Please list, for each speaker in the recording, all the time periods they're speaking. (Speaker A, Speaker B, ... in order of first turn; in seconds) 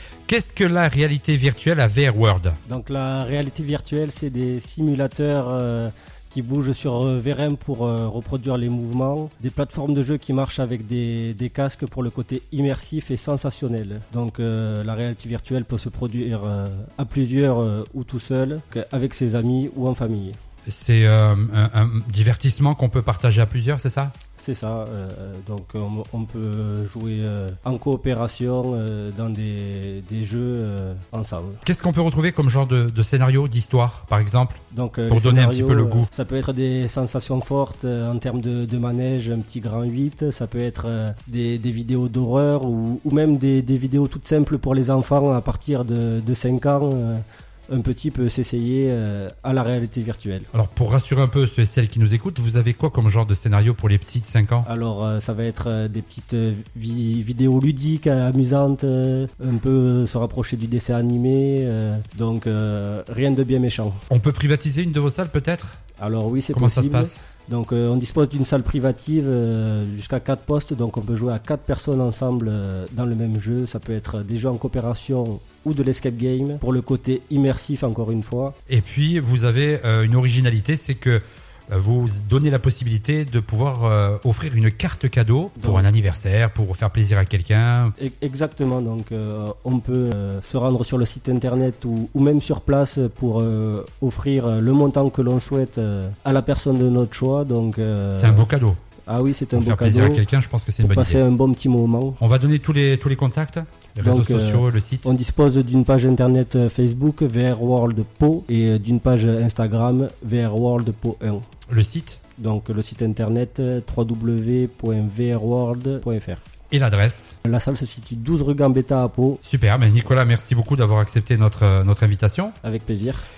Speaker A: 0.3-2.6, 20.7-24.1, 31.6-36.1, 50.5-54.7, 64.1-65.8, 66.5-67.2, 78.7-88.0, 98.1-98.8, 99.5-101.2, 102.2-105.1, 111.7-112.2, 116.7-117.4, 119.5-122.5
Speaker B: 2.6-20.4, 24.4-31.6, 34.7-50.5, 54.6-64.0, 66.0-78.5, 85.6-85.9, 88.0-98.5, 99.1-100.2, 100.8-102.2, 104.0-111.4, 112.4-116.4, 117.4-119.4, 122.6-123.2